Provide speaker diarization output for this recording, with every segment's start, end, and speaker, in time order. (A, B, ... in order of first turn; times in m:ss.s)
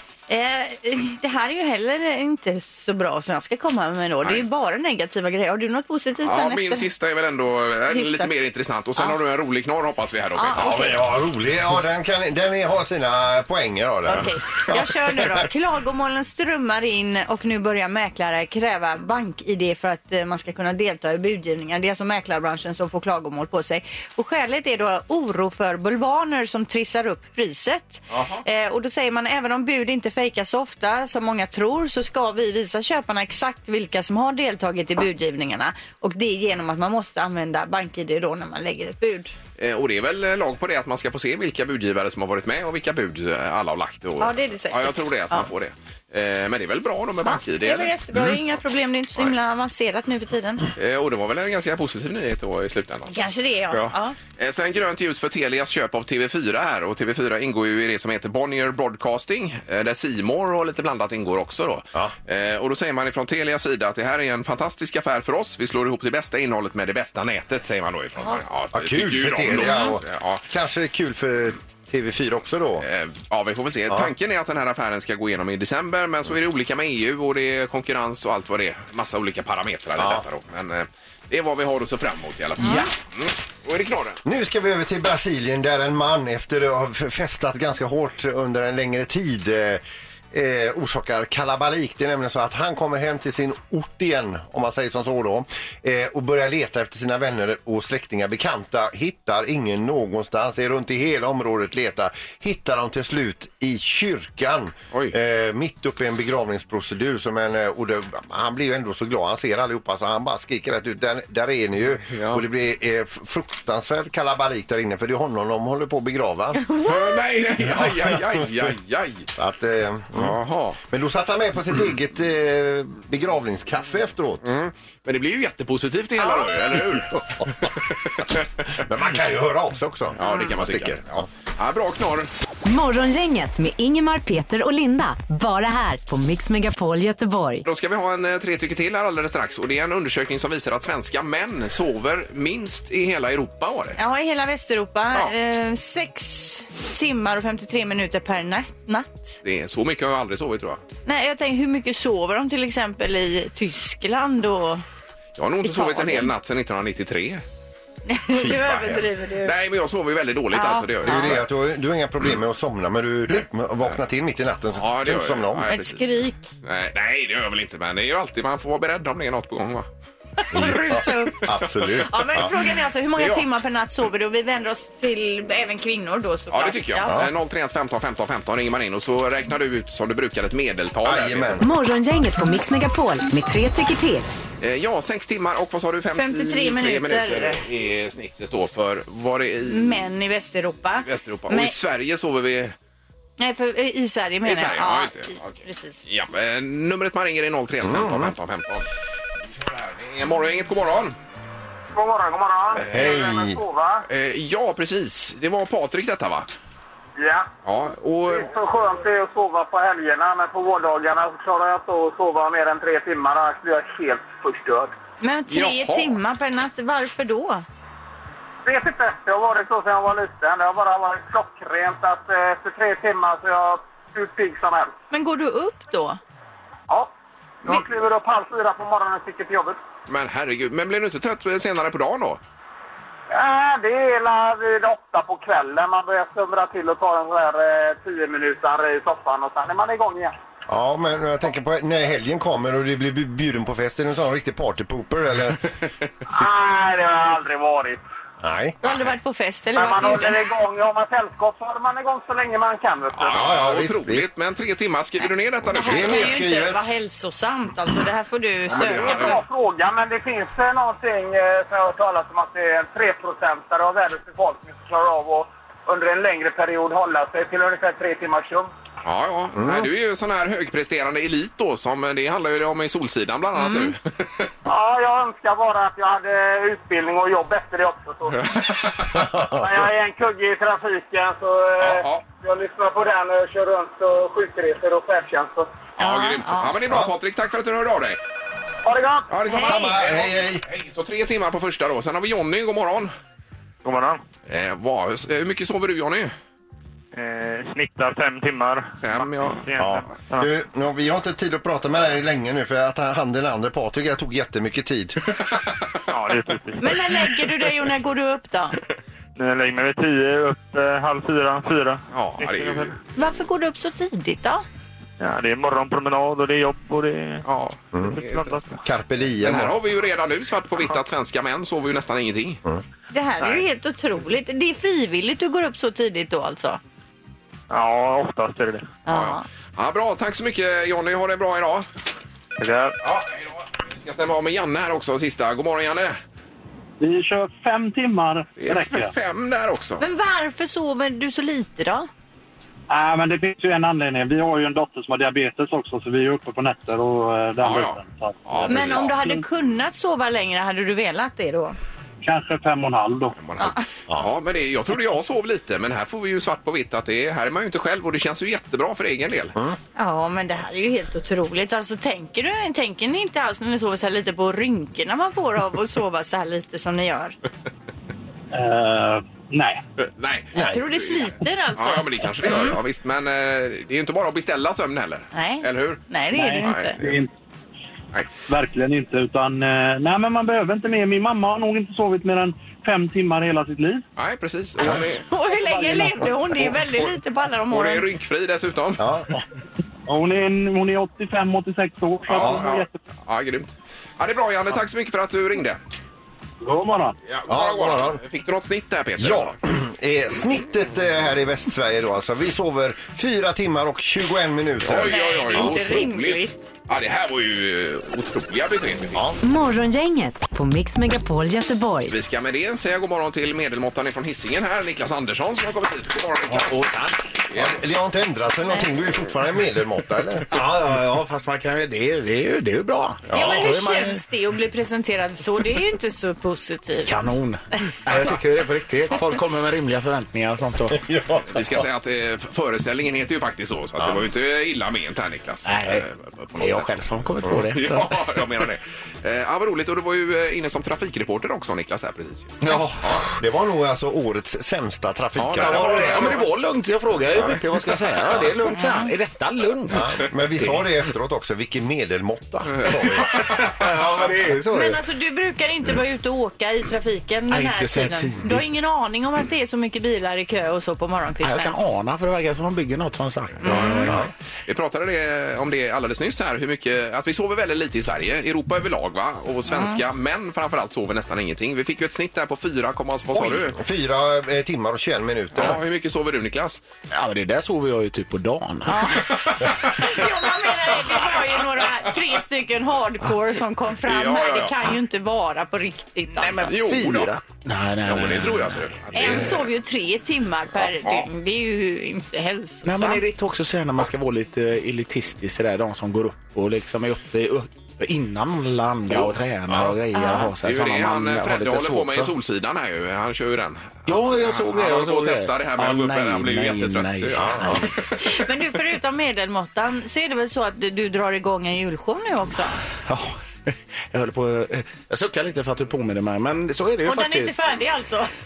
0:00.3-0:06.9 A
0:06.2-0:10.9 B
0:07.9-0:08.3 A
0:10.4-0:11.0 A
0:10.5-0:15.2 C
0:14.1-0:39.3 A
0:28.1-0:28.4 B
0:39.6-0:48.0 B
0:44.2-0:45.5 A
0:47.2-0:50.7 A
0:50.8-0:53.2 B
0:53.1-0:54.2 A
0:53.7-1:10.4 B
1:08.7-1:12.9 C
1:12.8-1:24.2 B
1:20.0-1:20.2 C
1:22.6-1:22.9 A
1:24.2-1:56.6 C
1:52.1-1:52.4 B
1:56.6-1:57.2 A
1:56.8-1:59.3 B
1:57.6-1:58.4 C
1:59.4-2:04.5 C
2:00.2-2:00.8 B
2:04.4-2:08.3 B
2:07.4-2:07.7 C
2:08.8-2:11.2 C
2:10.2-2:12.3 B
2:12.6-2:17.6 D
2:17.7-2:24.0 B
2:24.0-2:29.4 A
2:29.4-2:30.8 B
2:31.1-2:34.8 A
2:35.4-2:37.4 B
2:35.6-2:36.3 A
2:38.1-2:39.5 A
2:38.4-2:38.9 C
2:38.6-2:41.4 B
2:40.5-2:41.4 A
2:41.0-2:45.7 C
2:44.7-2:49.9 B
2:45.7-2:46.5 A
2:50.4-2:51.5 A
2:50.5-2:52.5 C
2:52.0-2:57.2 A
2:53.2-2:53.4 B
2:56.5-3:01.6 B
3:01.0-3:01.7 C
3:01.6-3:04.3 D
3:04.6-3:10.1 B
3:06.1-3:07.6 A
3:09.7-3:11.8 A
3:11.0-3:12.8 B
3:13.4-3:16.0 A
3:14.4-3:18.9 B
3:17.8-3:18.3 C
3:19.5-3:21.2 B
3:21.9-3:24.1 E
3:22.9-3:23.6 C
3:24.1-3:26.5 B
3:27.2-3:27.5 E
3:27.6-3:28.5 B
3:28.3-3:34.9 E
3:35.2-3:37.7 A
3:35.5-3:36.2 B
3:38.6-3:44.9 E
3:45.1-3:46.2 A
3:47.6-3:49.8 E
3:50.1-3:52.4 B
3:53.3-4:00.3 E
4:00.7-4:05.6 C
4:06.3-4:08.0 E
4:08.4-4:08.8 C
4:08.8-4:10.4 A
4:09.8-4:13.4 E
4:13.2-4:16.4 B
4:13.3-4:14.3 C
4:15.7-4:19.4 A
4:15.8-4:16.9 C
4:18.7-4:19.4 B
4:19.0-4:28.7 E
4:29.0-4:34.5 B
4:29.6-4:29.9 C
4:33.6-4:33.9 A
4:34.6-4:38.5 E
4:38.3-4:39.3 B
4:39.1-4:39.8 C
4:39.5-4:45.7 E
4:41.8-4:42.2 B
4:46.0-4:48.2 B
4:46.0-4:46.7 A
4:48.8-4:49.3 E
4:49.3-4:53.1 B
4:49.5-4:49.9 A
4:49.5-4:50.6 C
4:53.8-4:54.2 F
4:54.5-4:56.3 B
4:57.1-5:00.5 F
4:59.0-4:59.7 B
4:59.8-5:05.2 C
5:06.1-5:06.9 F
5:06.8-5:08.8 A
5:09.4-5:13.0 F
5:12.1-5:13.0 B
5:13.2-5:14.6 A
5:15.2-5:17.4 F
5:17.4-5:18.7 B
5:18.0-5:18.8 F
5:18.8-5:19.8 C
5:19.4-5:22.6 B
5:23.1-5:26.8 A
5:27.7-5:28.9 F
5:29.1-5:29.4 A
5:29.1-5:31.9 B
5:32.6-5:33.0 F
5:33.0-5:36.2 B
5:37.0-5:39.1 G
5:38.6-5:40.0 B
5:40.0-5:42.1 A
5:42.9-5:49.4 G
5:47.6-5:49.1 B
5:48.7-5:51.8 A
5:52.2-5:53.4 G
5:53.4-5:59.6 B
5:53.6-5:53.8 A
6:00.0-6:07.4 A
6:08.5-6:09.8 G
6:10.1-6:16.1 B
6:10.6-6:12.8 A
6:15.3-6:17.0 A
6:16.3-6:17.3 G
6:16.6-6:17.2 B
6:18.5-6:24.0 G
6:24.2-6:25.2 B
6:24.8-6:25.1 C
6:25.3-6:28.0 A
6:25.6-6:26.4 G
6:27.7-6:29.0 B
6:29.0-6:29.3 C
6:30.1-6:33.0 G
6:32.3-6:35.8 B
6:36.6-6:37.2 G
6:37.3-6:39.6 B
6:37.5-6:38.2 C
6:39.2-6:45.8 C
6:44.8-6:49.2 B
6:45.0-6:46.6 A
6:49.4-6:52.2 D
6:52.1-6:56.9 B
6:56.5-6:57.1 H
6:57.5-6:57.8 B
6:57.5-7:00.6 C
7:00.5-7:04.2 H
7:03.3-7:03.6 C
7:03.3-7:07.3 A
7:07.1-7:11.0 H
7:10.9-7:11.9 C
7:11.5-7:16.9 B
7:14.0-7:14.2 C
7:15.7-7:16.1 H
7:16.6-7:18.2 H
7:17.6-7:23.2 B
7:22.6-7:23.4 H
7:23.4-7:26.4 C
7:25.4-7:26.5 B
7:25.5-7:30.9 H
7:27.3-7:28.5 C
7:28.7-7:29.1 A
7:29.9-7:33.6 C
7:32.7-7:33.4 B
7:33.3-7:35.0 H
7:34.7-7:41.7 A
7:37.5-7:38.6 H
7:41.4-7:44.2 H
7:43.6-7:44.2 A
7:43.6-7:53.8 B
7:49.7-7:50.0 A
7:53.3-7:55.8 C
7:55.6-7:56.8 B
7:57.1-7:59.3 H
7:58.9-7:59.3 A
7:59.6-8:00.0 B
7:59.9-8:06.7 A
8:01.0-8:01.5 B
8:04.1-8:04.7 B
8:06.4-8:09.5 H
8:06.7-8:07.3 B
8:08.0-8:09.7 B
8:09.1-8:13.2 A
8:10.8-8:11.3 B
8:12.8-8:22.3 H
8:19.1-8:19.9 B
8:20.1-8:20.5 A
8:20.6-8:28.3 B
8:24.1-8:27.8 H
8:27.4-8:27.9 C
8:27.7-8:32.8 A
8:33.0-8:37.5 H
8:37.0-8:38.3 A